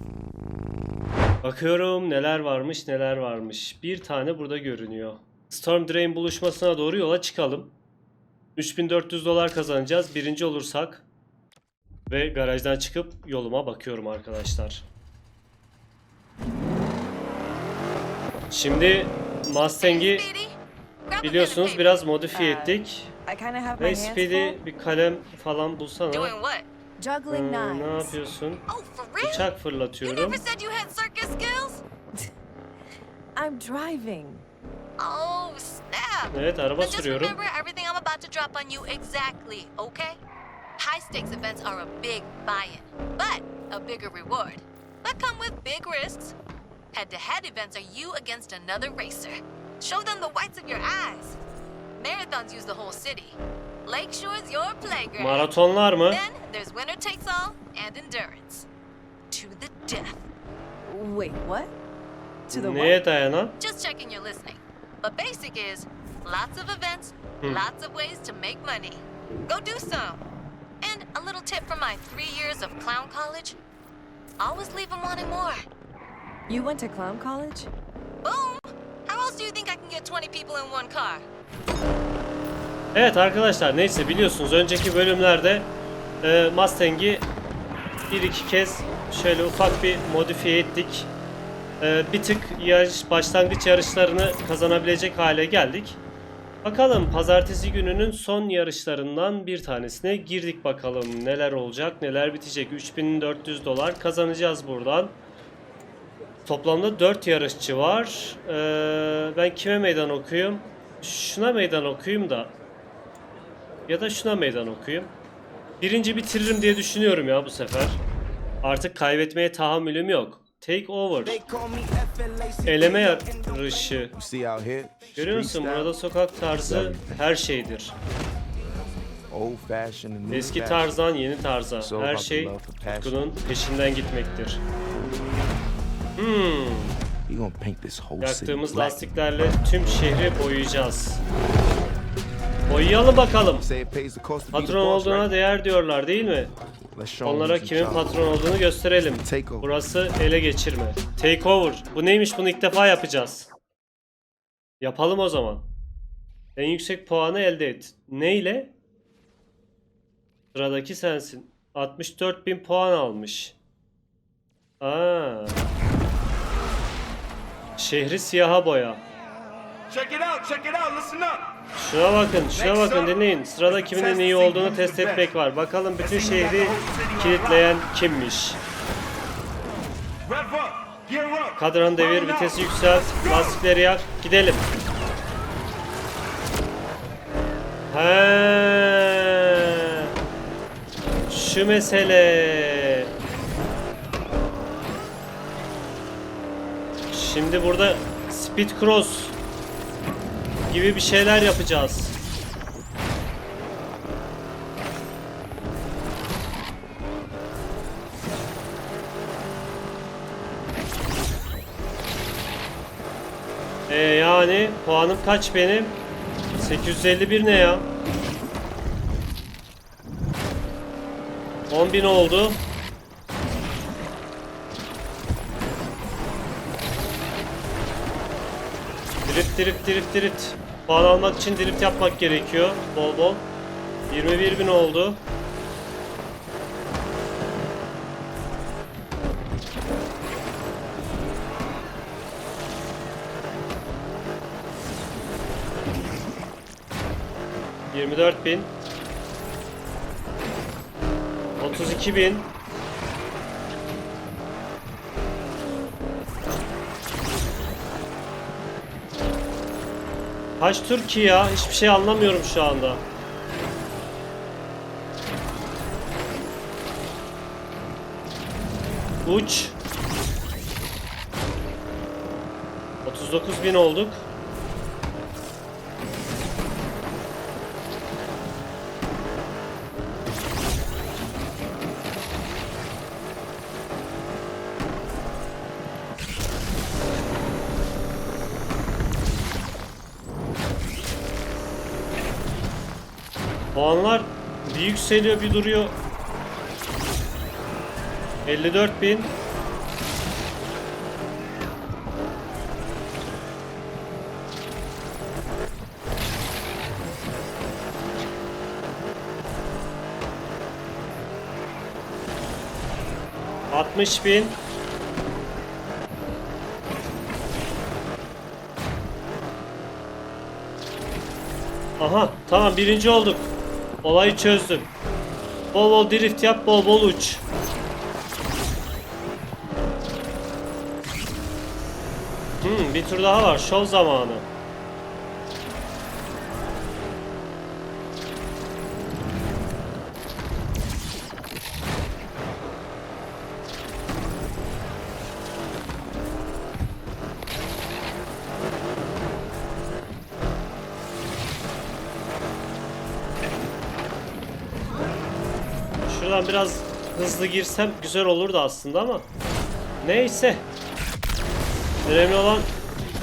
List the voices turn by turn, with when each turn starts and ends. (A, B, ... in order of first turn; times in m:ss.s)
0:01.4-0:07.7 A
0:08.6-0:11.0 A
0:12.1-0:14.8 A
0:18.5-0:20.3 A
0:19.8-0:20.6 B
0:21.1-0:22.0 B
0:21.2-0:23.1 A
0:22.3-0:24.6 C
0:23.8-0:26.4 A
0:26.1-0:26.7 B
0:27.0-0:28.2 C
0:27.3-0:28.6 A
0:28.7-0:29.5 B
0:29.2-0:30.4 A
0:30.0-0:31.8 B
0:33.4-0:34.5 C
0:35.0-0:40.2 B
0:36.3-0:37.4 A
0:40.8-0:46.3 B
0:46.9-0:51.4 B
0:52.0-0:55.5 B
0:55.2-0:56.2 A
0:56.1-0:58.7 B
0:59.3-1:00.3 B
1:00.8-1:01.7 C
1:02.5-1:03.6 A
1:02.5-1:03.0 C
1:03.6-1:10.2 B
1:10.8-1:13.6 B
1:14.4-1:15.6 B
1:16.5-1:17.7 C
1:18.2-1:21.3 B
1:22.9-1:25.7 A
1:26.2-1:27.3 A
1:28.1-1:31.1 A
1:31.8-1:36.0 A
1:36.6-1:45.2 A
1:46.4-1:52.5 A
1:53.9-1:55.1 A
1:55.8-1:58.0 A
1:58.6-2:01.4 A
2:01.3-2:04.0 D
2:02.7-2:04.2 A
2:04.2-2:06.0 E
2:05.2-2:07.9 A
2:06.6-2:07.2 E
2:09.3-2:10.9 E
2:10.3-2:14.6 A
2:11.8-2:13.2 E
2:16.2-2:16.9 A
2:17.3-2:19.1 E
2:18.2-2:21.2 A
2:22.7-2:23.7 A
2:23.6-2:25.3 E
2:24.5-2:26.5 A
2:26.9-2:28.2 E
2:27.2-2:33.5 A
2:29.2-2:29.7 E
2:34.8-2:35.7 A
2:36.6-2:38.7 A
2:40.5-2:43.6 A
2:44.8-2:45.6 A
2:47.8-2:49.0 A
2:49.9-2:51.4 D
2:51.8-2:58.6 A
2:52.6-2:53.2 D
2:53.8-2:55.2 D
2:54.7-2:55.1 E
2:56.0-2:57.7 D
3:00.3-3:03.6 D
3:01.6-3:04.6 A
3:07.9-3:09.4 A
3:11.3-3:13.1 A
3:17.1-3:19.4 A
3:20.7-3:22.2 A
3:33.9-3:36.0 A
3:36.6-3:37.9 A
3:41.7-3:42.6 A
3:49.3-3:53.5 A
3:54.1-3:55.2 A
4:07.9-4:08.7 A
4:11.6-4:12.5 A
4:20.6-4:23.0 A
4:29.2-4:29.8 A
4:33.0-4:34.2 A
4:53.7-4:56.0 A
4:58.5-4:59.3 A
5:13.7-5:14.6 A
5:22.0-5:23.5 A
5:24.0-5:24.9 A
5:25.7-5:27.4 A
5:32.6-5:34.5 A
5:56.1-5:59.3 A
6:00.0-6:00.7 A
6:02.1-6:02.7 A